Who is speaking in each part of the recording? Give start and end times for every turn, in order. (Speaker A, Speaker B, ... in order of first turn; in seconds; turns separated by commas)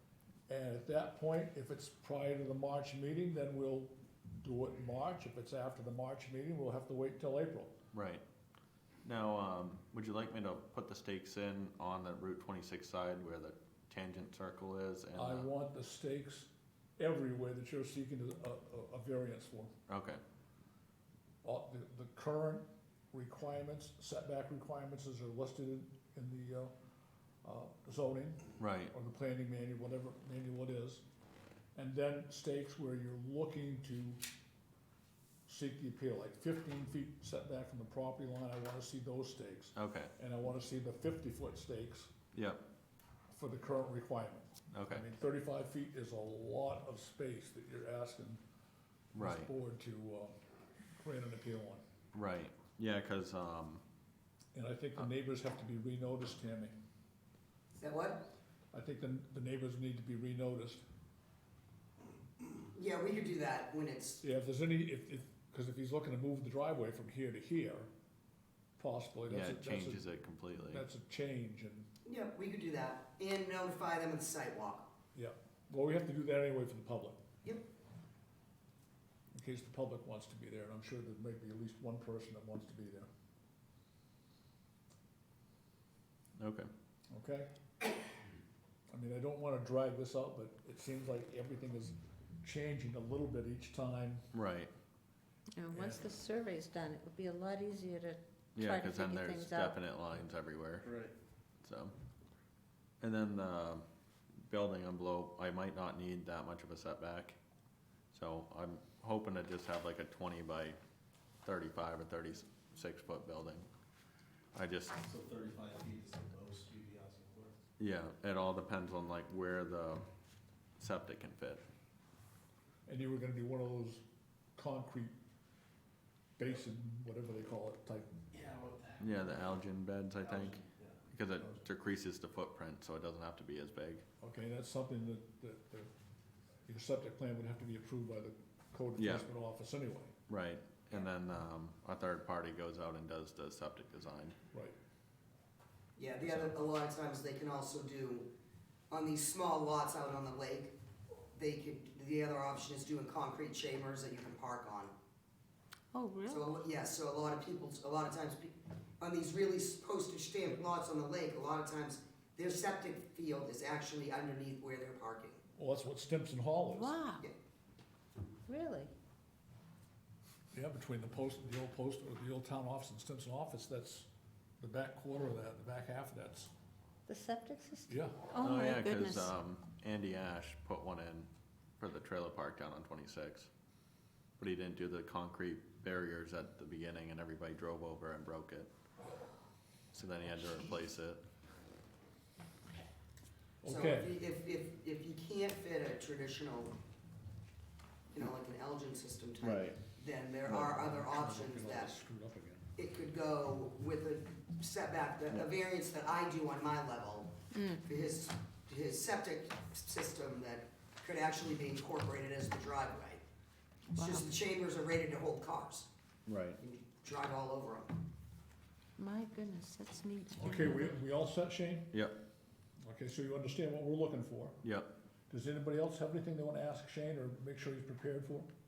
Speaker A: 0.5-7.7, Speaker B: 7.9-8.2, Speaker B: 9.0-15.5, Speaker A: 15.1-19.7, Speaker B: 19.9-20.2, Speaker A: 21.4-26.7, Speaker A: 27.4-31.0, Speaker B: 28.6-28.9, Speaker A: 31.7-34.2, Speaker A: 35.5-42.1, Speaker B: 39.7-40.1, Speaker B: 42.3-42.6, Speaker A: 43.3-48.4, Speaker B: 44.7-45.1, Speaker B: 49.1-49.5, Speaker A: 49.1-50.4, Speaker A: 51.0-51.8, Speaker B: 52.1-53.8, Speaker A: 54.5-56.7, Speaker C: 57.8-58.3, Speaker A: 58.7-60.8, Speaker C: 62.7-64.2, Speaker A: 64.2-67.9, Speaker A: 68.8-70.0, Speaker B: 69.3-70.8, Speaker A: 70.6-71.9, Speaker C: 72.0-74.9, Speaker A: 75.1-77.2, Speaker A: 79.3-83.1, Speaker B: 86.4-86.7, Speaker A: 87.1-87.5, Speaker A: 88.9-94.3, Speaker B: 94.3-94.7, Speaker D: 95.6-99.7, Speaker A: 95.7-96.1, Speaker B: 98.5-100.9, Speaker E: 100.8-101.1, Speaker B: 101.6-101.9, Speaker B: 103.0-103.8, Speaker B: 104.5-107.4, Speaker B: 108.1-110.8, Speaker B: 111.4-113.7, Speaker B: 114.5-115.0, Speaker E: 115.0-117.6, Speaker B: 117.8-120.0, Speaker B: 120.8-121.6, Speaker A: 122.9-124.0, Speaker A: 124.5-125.1, Speaker A: 126.4-128.2, Speaker E: 128.3-129.5, Speaker B: 129.0-134.0, Speaker E: 130.2-131.0, Speaker A: 134.2-135.9, Speaker A: 136.7-140.1, Speaker B: 138.9-139.3, Speaker B: 140.3-144.3, Speaker C: 145.9-148.3, Speaker C: 148.9-150.7, Speaker C: 151.3-154.9, Speaker D: 155.9-156.4, Speaker C: 156.3-165.4, Speaker A: 165.5-167.0, Speaker D: 166.8-167.2, Speaker D: 168.5-168.9, Speaker A: 170.5-174.1, Speaker A: 174.6-176.5, Speaker D: 177.1-179.2, Speaker A: 177.9-178.2, Speaker B: 178.3-181.3, Speaker B: 181.8-183.5, Speaker B: 184.4-188.7, Speaker B: 189.9-191.2, Speaker A: 193.6-194.1, Speaker C: 193.6-196.7, Speaker C: 198.1-202.0, Speaker B: 199.4-199.8, Speaker A: 200.5-202.7, Speaker C: 202.8-213.2, Speaker C: 213.9-215.9, Speaker B: 216.3-216.6, Speaker C: 216.6-217.9, Speaker D: 219.0-220.6, Speaker A: 220.4-221.9, Speaker B: 221.9-222.2, Speaker A: 222.8-224.6, Speaker B: 224.6-224.9, Speaker A: 225.3-228.5